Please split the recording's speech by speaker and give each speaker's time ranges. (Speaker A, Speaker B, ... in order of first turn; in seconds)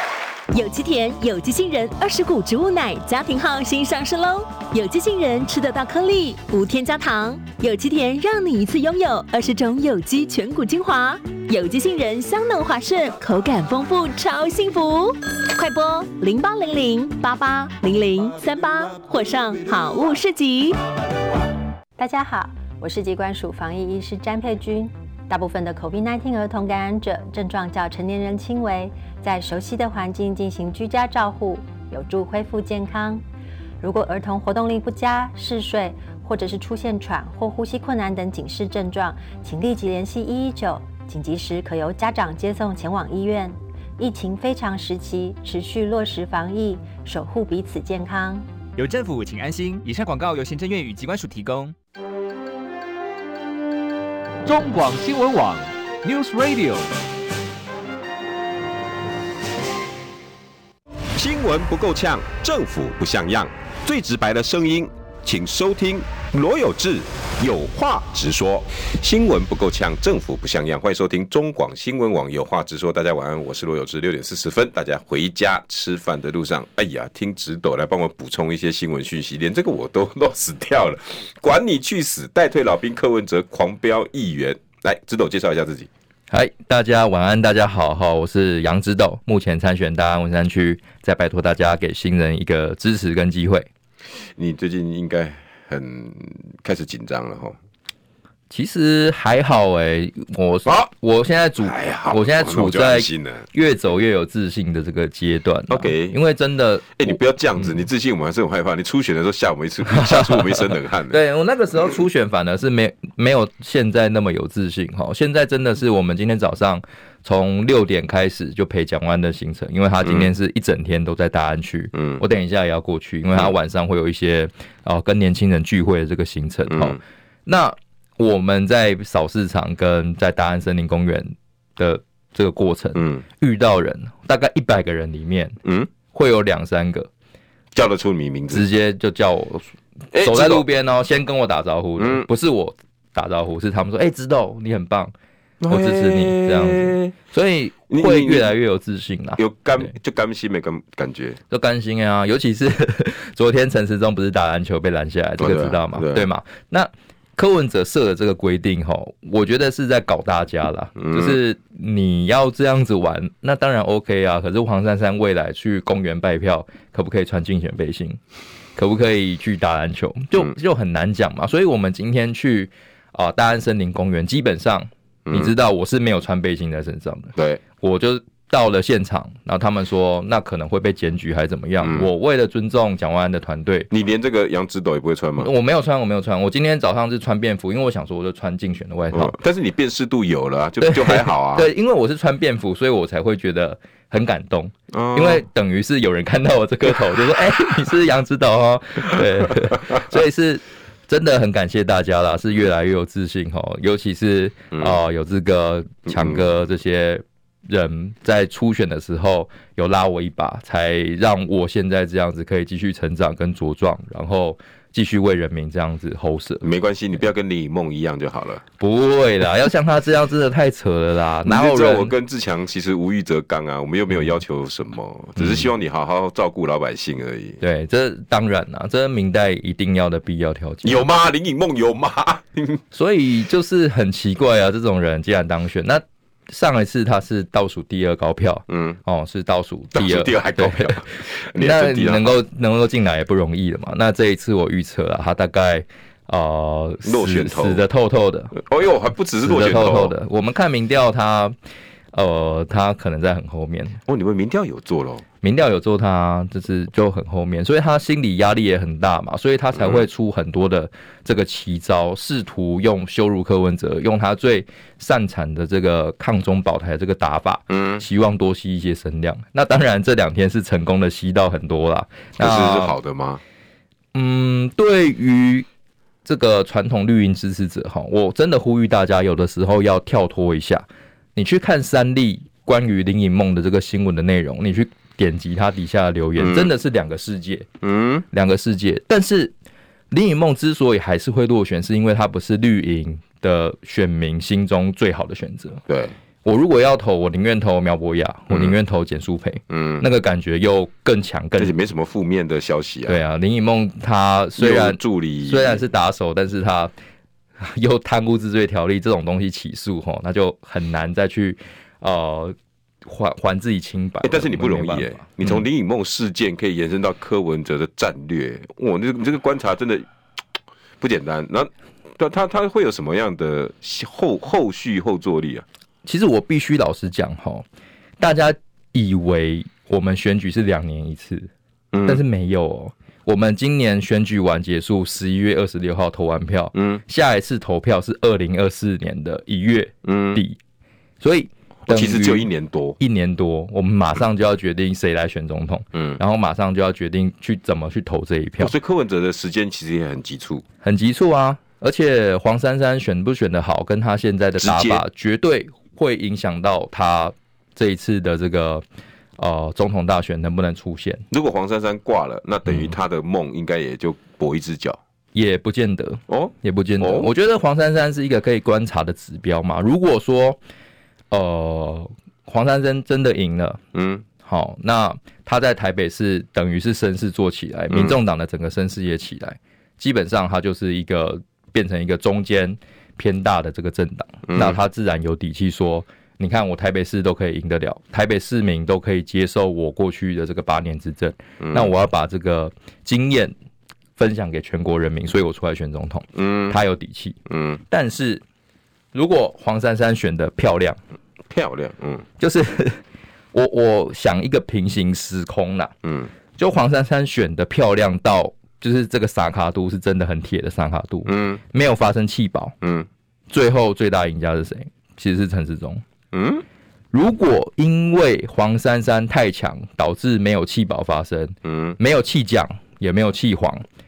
Speaker A: 0.5-20.8
Speaker B: 22.0-33.2, 33.8-48.5
Speaker C: 48.8-51.7, 54.4-56.9
Speaker D: 61.1-85.9, 94.2-97.5, 101.6-103.4, 105.7-106.2, 107.0-111.2, 120.0-120.3, 121.9-122.2, 126.7-127.0, 132.9-133.2, 135.6-135.9, 137.7-138.7, 140.1-140.6, 142.0-142.3, 145.6-147.1, 147.9-148.5, 149.4-151.4, 155.4-156.3, 161.0-161.4, 175.2-175.5, 177.3-177.6, 181.8-182.1, 183.9-185.5, 189.1-191.7, 194.9-195.4, 199.6-200.0, 204.7-205.0, 206.1-206.5, 216.6-218.6, 221.4-227.6, 230.8-232.8, 238.7-239.0, 239.9-242.3, 247.0-247.8, 248.5-250.1, 254.1-255.2, 259.8-260.0, 267.7-268.0, 272.4-273.4, 286.4-286.7, 287.8-288.2, 295.9-296.1, 299.7-300.1, 301.6-303.2, 304.6-305.8, 314.2-320.1, 321.0-325.6, 331.9-332.2, 336.7-337.0, 340.0-340.4, 341.9-343.0, 345.9-346.2, 348.6-350.6, 354.6-355.0, 361.3-365.0, 366.3-367.3, 373.9-374.2, 377.9-378.2, 384.5-384.8, 391.6-391.9, 396.3-396.8, 397.5-397.8, 401.5-402.2, 406.0-406.3, 411.2-411.6, 412.8-413.1, 416.3-416.6, 421.6-421.9
Speaker E: 86.3-93.7, 98.5-107.7, 109.9-135.6, 136.1-137.1, 138.5-145.1, 145.7-149.9, 151.5-168.2, 168.8-183.9, 185.4-189.3, 190.8-216.7, 218.8-222.1, 225.4-225.7, 227.6-231.0, 232.9-241.0, 241.6-248.5, 249.4-251.5, 252.1-254.0, 255.4-272.9, 274.1-275.6, 276.2-287.7, 288.3-289.5, 290.1-295.8, 296.4-301.7, 303.1-306.9, 307.6-315.6, 326.0-327.6, 328.2-331.5, 332.1-340.6, 341.2-348.7, 350.8-358.8, 359.4-361.2, 362.7-362.9, 365.3-370.6, 371.3-373.8, 374.4-393.5, 394.2-397.4, 397.9-398.4, 399.1-401.0, 402.4-403.0, 403.5-405.9, 406.6-412.7, 413.5-416.0, 417.1-423.8